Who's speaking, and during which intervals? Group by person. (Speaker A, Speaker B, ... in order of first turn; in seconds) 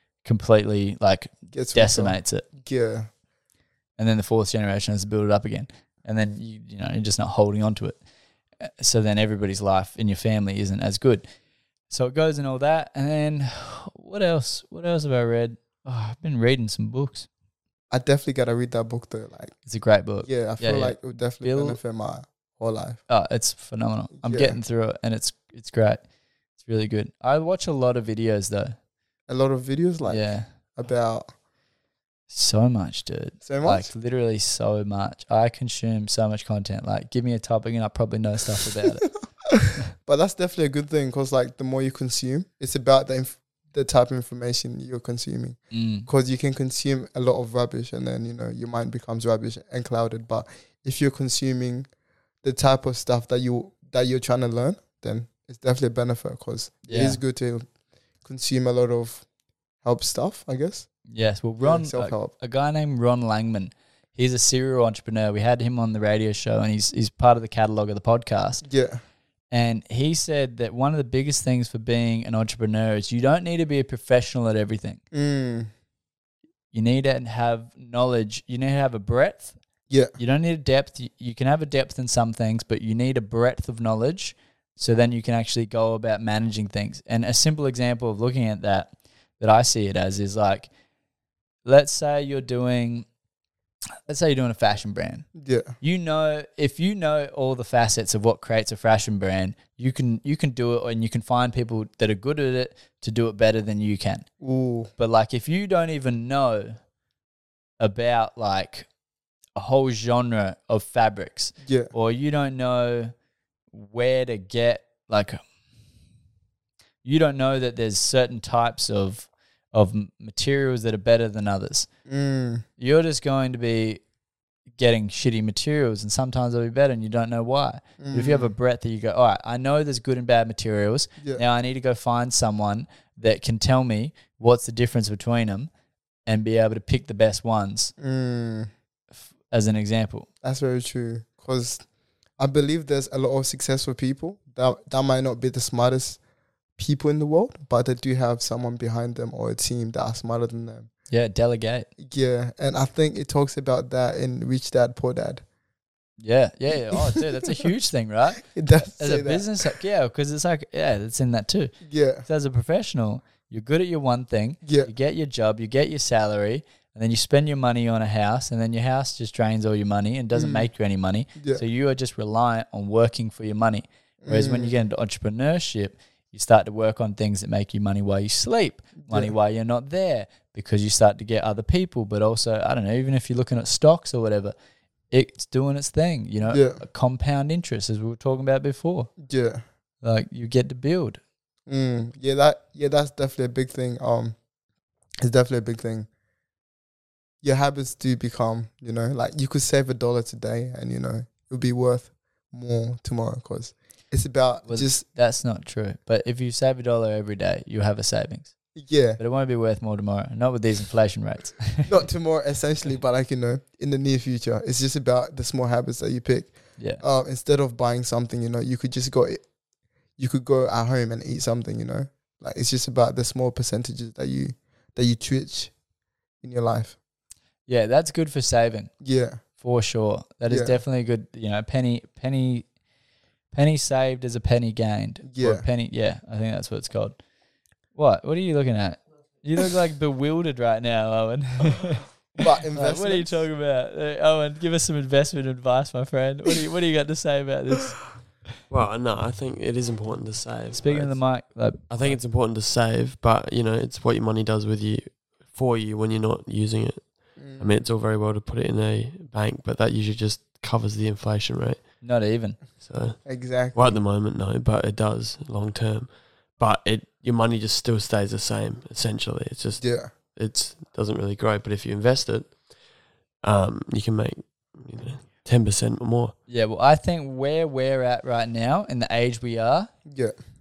Speaker A: 0.2-2.5, 4.0-8.0, 8.6-11.2, 11.9-17.3, 19.6-21.8, 23.1-26.0, 26.6-28.8, 30.1-30.4, 32.3-39.1, 45.7-46.1, 56.9-57.2, 61.1-68.6, 69.5-75.0, 76.7-79.5, 80.2-90.7, 91.7-93.0, 94.1-95.3, 95.8-104.2, 105.0-106.8, 107.8-108.9, 109.6-113.1, 113.7-115.4, 117.0-121.9, 122.8-124.0, 124.8-135.7, 136.2-137.9, 139.5-140.3, 151.1-151.9, 156.2-184.5, 185.1-189.1, 190.0-191.2, 204.7-208.6, 209.2-211.9, 216.8-217.0, 227.7-228.9, 229.6-232.7, 233.5-237.2, 237.9-242.2, 242.8-248.2, 250.7-252.2, 262.0-262.6, 276.5-279.9
Speaker B: 1.5-3.1, 17.9-19.6, 20.2-23.0, 24.2-24.6, 29.3-31.3, 33.4-33.9, 39.5-51.9, 52.4-57.6, 58.2-59.2, 59.8-60.9, 61.6-62.3, 68.6-69.0, 75.1-75.7, 95.4-95.8, 104.4-104.9, 111.6-111.9, 122.1-122.7, 128.0-128.5, 138.0-138.7, 140.4-141.8, 142.4-146.2, 146.8-150.9, 152.0-155.4, 156.7-157.7, 158.4-159.7, 161.8-162.2, 164.7-164.9, 170.3-170.7, 174.2-174.7, 179.0-179.3, 186.5-186.8, 189.2-189.6, 191.7-194.3, 195.2-196.1, 197.4-205.0, 208.8-209.2, 211.8-219.4, 220.2-225.7, 226.4-227.0, 229.0-229.4, 230.5-230.8, 235.2-235.7, 242.4-243.5, 257.4-257.8, 263.2-264.0, 269.8-270.1, 280.1-280.4
Speaker C: 248.7-251.2, 251.9-261.9, 262.8-263.2, 263.7-272.6, 273.4-276.4